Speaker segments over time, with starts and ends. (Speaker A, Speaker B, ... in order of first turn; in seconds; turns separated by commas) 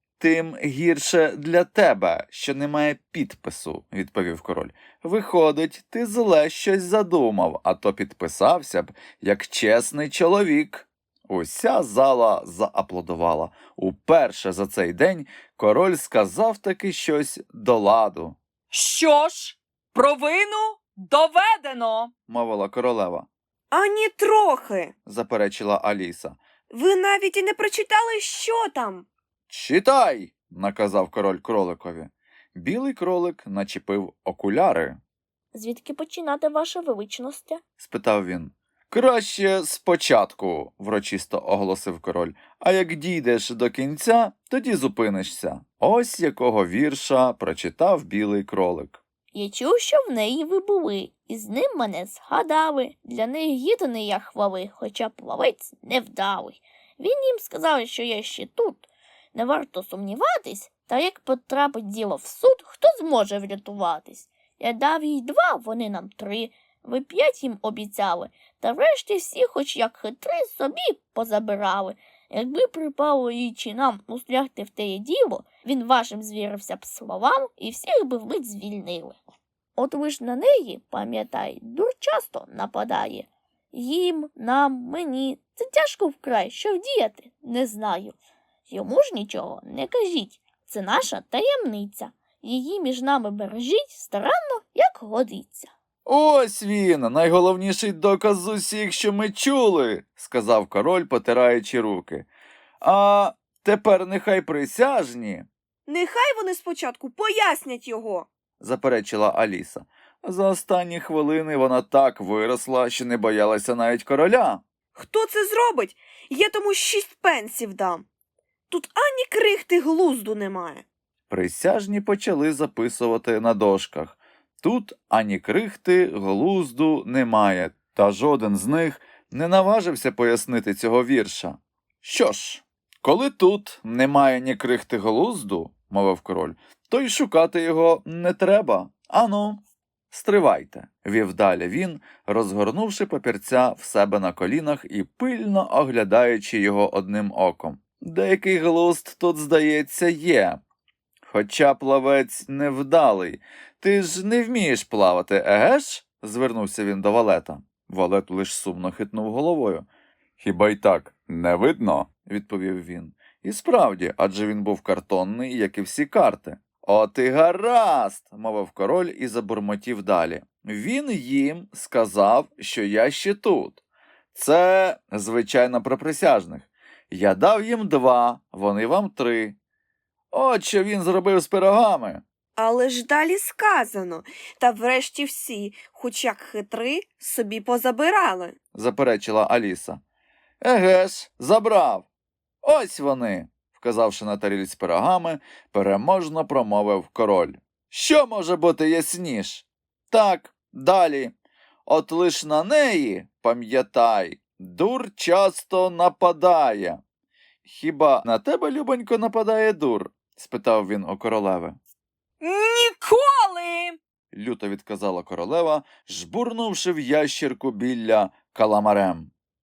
Speaker A: 0.2-18.4, Speaker B: 18.7-22.1, Speaker A: 22.3-23.3, Speaker C: 23.7-24.9, Speaker A: 25.1-26.4, Speaker C: 26.7-29.1, Speaker A: 29.5-35.0, Speaker D: 35.5-37.6, Speaker A: 37.8-49.0, Speaker D: 49.3-79.2, Speaker D: 79.8-88.2, Speaker D: 88.7-95.7, Speaker A: 96.0-102.3, Speaker A: 102.8-105.5, Speaker C: 105.9-108.3, Speaker A: 108.6-114.6, Speaker C: 114.9-118.0, Speaker C: 118.7-120.8, Speaker A: 121.3-150.6, Speaker A: 151.3-159.8, Speaker A: 160.4-173.8, Speaker A: 174.3-179.6, Speaker A: 180.3-182.2, Speaker C: 182.6-188.5, Speaker A: 188.7-190.0, Speaker A: 190.6-192.1, Speaker A: 192.6-201.3, Speaker A: 201.8-207.0, Speaker A: 207.6-211.8, Speaker B: 212.4-214.0, Speaker A: 214.3-219.3